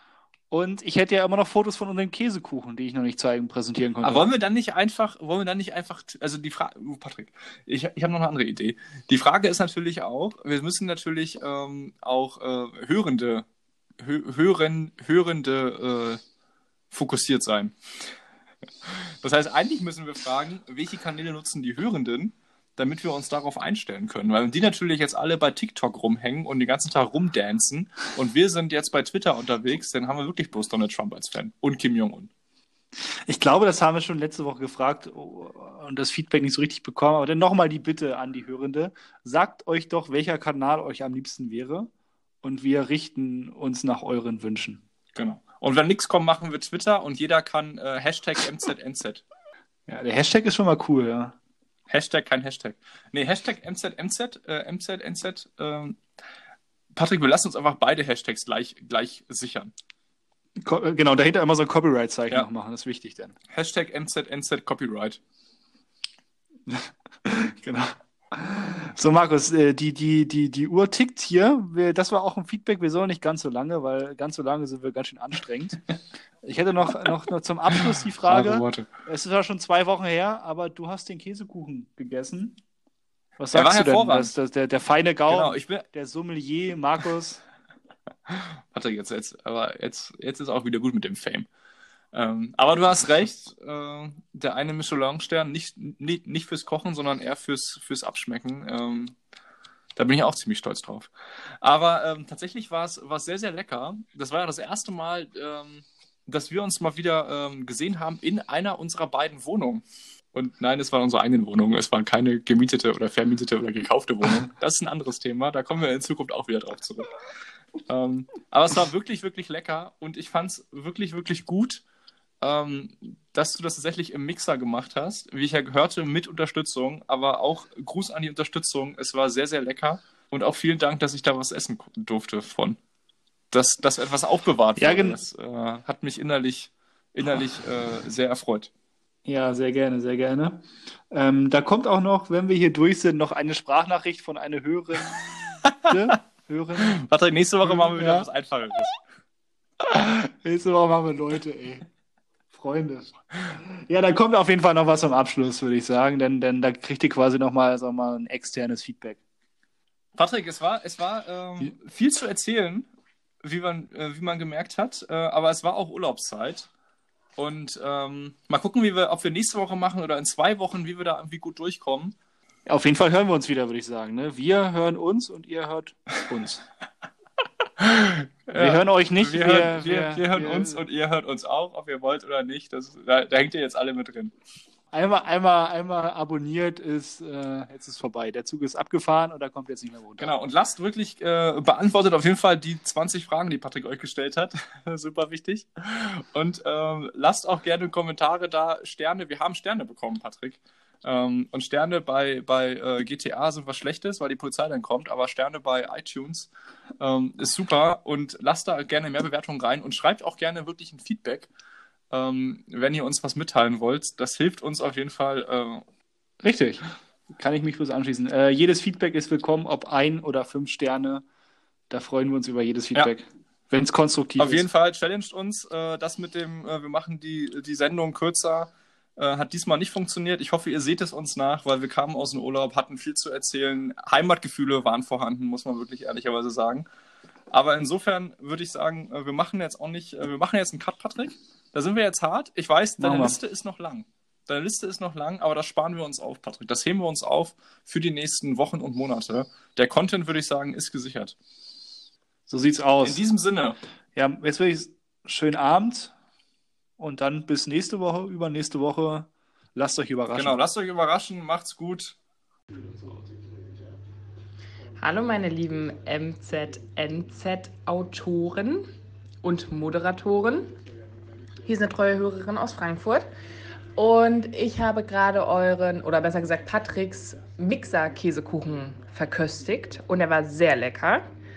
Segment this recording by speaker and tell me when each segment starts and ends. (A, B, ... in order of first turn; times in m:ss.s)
0:00.5-0:04.2 A
0:04.0-0:13.4 B
0:14.0-0:16.2 B
0:16.9-0:17.7 B
0:18.8-0:32.3 B
0:33.2-0:41.9 A
0:42.4-0:44.8 A
0:45.1-0:49.2 B
0:49.9-0:51.4 A
0:51.9-0:56.0 B
0:56.9-0:59.7 B
1:00.6-1:03.4 A
1:03.5-1:05.2 B
1:06.7-1:15.8 A
1:16.4-1:22.6 A
1:17.7-1:18.9 B
1:23.4-1:27.4 A
1:23.5-1:24.3 B
1:25.3-1:25.8 B
1:28.3-1:31.5 B
1:32.1-1:39.1 B
1:40.0-1:41.1 B
1:41.6-1:57.1 B
1:57.9-2:01.8 B
2:02.4-2:12.8 B
2:13.5-2:18.7 B
2:14.8-2:15.2 A
2:19.2-2:27.0 A
2:26.8-2:29.0 B
2:27.6-2:28.3 A
2:29.8-2:31.9 A
2:32.5-2:39.2 A
2:40.2-2:42.9 B
2:43.4-2:46.7 B
2:47.4-2:52.1 B
2:52.6-2:56.6 A
2:57.8-3:04.3 B
2:58.6-3:00.8 A
3:04.9-3:10.3 A
3:10.2-3:26.5 B
3:27.0-3:31.5 B
3:32.1-3:35.8 B
3:36.4-3:41.2 A
3:41.9-3:44.6 A
3:44.4-3:56.9 B
3:57.5-4:11.4 B
4:03.0-4:03.4 A
4:12.5-4:13.2 A
4:13.0-4:13.8 B
4:14.2-4:16.1 A
4:17.0-4:20.6 A
4:20.3-4:22.2 B
4:25.0-4:28.9 C
4:29.4-4:30.8 C
4:31.6-4:33.3 C
4:33.9-4:41.3 C